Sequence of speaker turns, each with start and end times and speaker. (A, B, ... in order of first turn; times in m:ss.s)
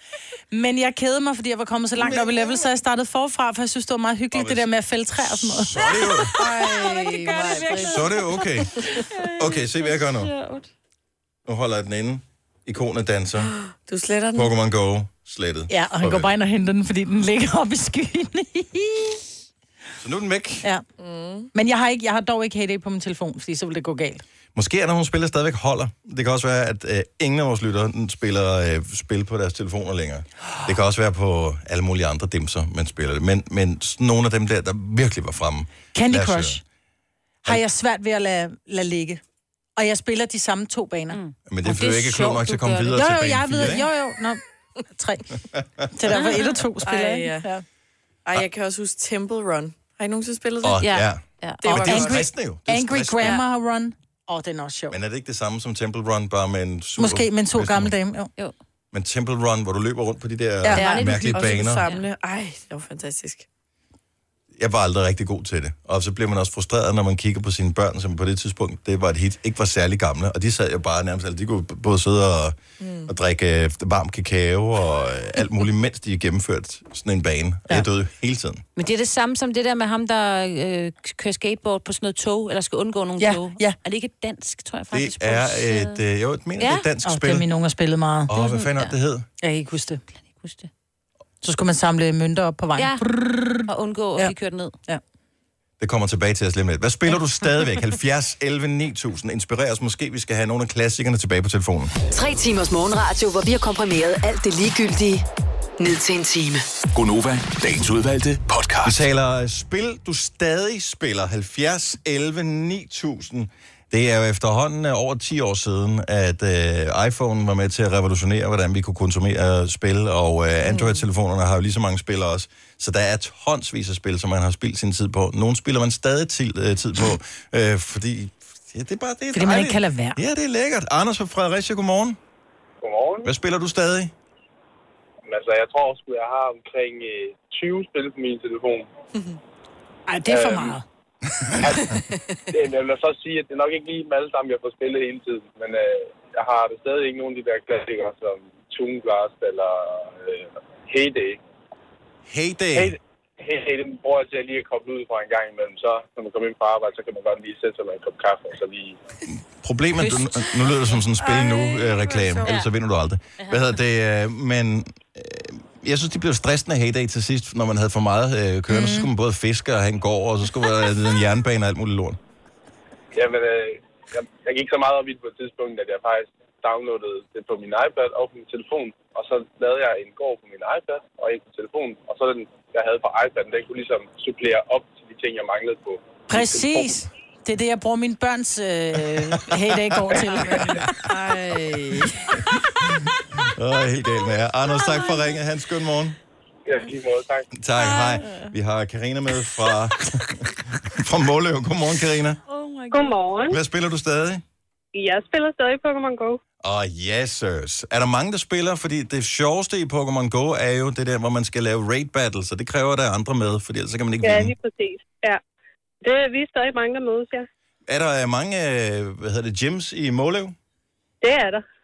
0:00.5-0:05.8 A
0:02.0-0:02.3 B
0:04.3-0:04.7 B
0:05.2-0:06.3 B
0:05.8-0:10.7 C
0:06.4-0:08.0 D
0:06.4-0:07.8 A
0:07.8-0:10.3 B
0:11.5-0:13.5 B
0:13.4-0:14.5 D
0:14.4-0:16.3 B
0:15.7-0:19.2 A
0:20.0-0:20.7 B
0:21.0-0:21.5 D
0:21.5-0:24.2 A
0:24.6-0:36.6 B
0:35.9-0:36.6 A
0:37.4-0:39.2 A
0:39.8-0:41.2 A
0:41.1-0:43.0 C
0:41.5-0:43.8 B
0:43.0-0:44.4 A
0:44.9-0:45.4 A
0:45.5-0:45.9 B
0:45.9-0:47.6 A
0:46.2-0:46.6 C
0:46.8-0:47.5 D
0:48.2-0:50.9 D
0:50.6-0:53.4 B
0:50.8-0:51.6 C
0:51.6-0:52.2 D
0:51.7-0:55.0 A
0:54.9-0:57.9 B
0:57.0-0:58.3 A
0:58.9-1:01.9 B
1:00.8-1:02.1 C
1:00.8-1:03.5 D
1:04.6-1:18.6 B
1:12.8-1:13.1 D
1:18.8-1:26.0 C
1:23.2-1:23.8 A
1:24.9-1:27.5 B
1:26.6-1:26.9 C
1:27.0-1:28.4 A
1:28.3-1:29.3 B
1:28.4-1:28.9 C
1:29.4-1:30.0 A
1:30.2-1:30.7 C
1:31.4-1:34.3 A
1:33.7-1:34.7 C
1:35.8-1:41.9 B
1:42.1-1:45.2 E
1:45.8-1:46.6 E
1:46.9-1:49.0 F
1:48.8-2:12.2 B
2:00.6-2:01.0 D
2:09.3-2:10.2 A
2:12.8-2:13.3 G
2:13.2-2:14.1 B
2:15.3-2:18.9 G
2:20.1-2:20.8 A
2:20.3-2:20.8 G
2:21.4-2:21.8 B
2:22.5-2:31.4 G
2:32.3-2:33.0 B
2:32.8-2:39.0 G
2:39.3-2:52.2 B
2:40.0-2:40.8 C
2:41.2-2:42.6 D
2:43.4-2:43.7 C
2:48.7-2:49.1 A
2:53.1-3:06.8 G
3:06.3-3:10.8 A
3:10.1-3:10.9 B
3:11.0-3:12.4 D
3:12.8-3:16.2 B
3:16.7-3:17.5 G
3:17.6-3:22.4 B
3:17.8-3:18.2 C
3:22.5-3:23.2 C
3:22.9-3:23.6 H
3:23.5-3:24.4 B
3:24.9-3:26.4 H
3:26.6-3:34.6 B
3:34.2-3:35.4 H
3:36.0-3:37.5 H
3:37.9-3:40.6 B
3:41.2-3:41.6 H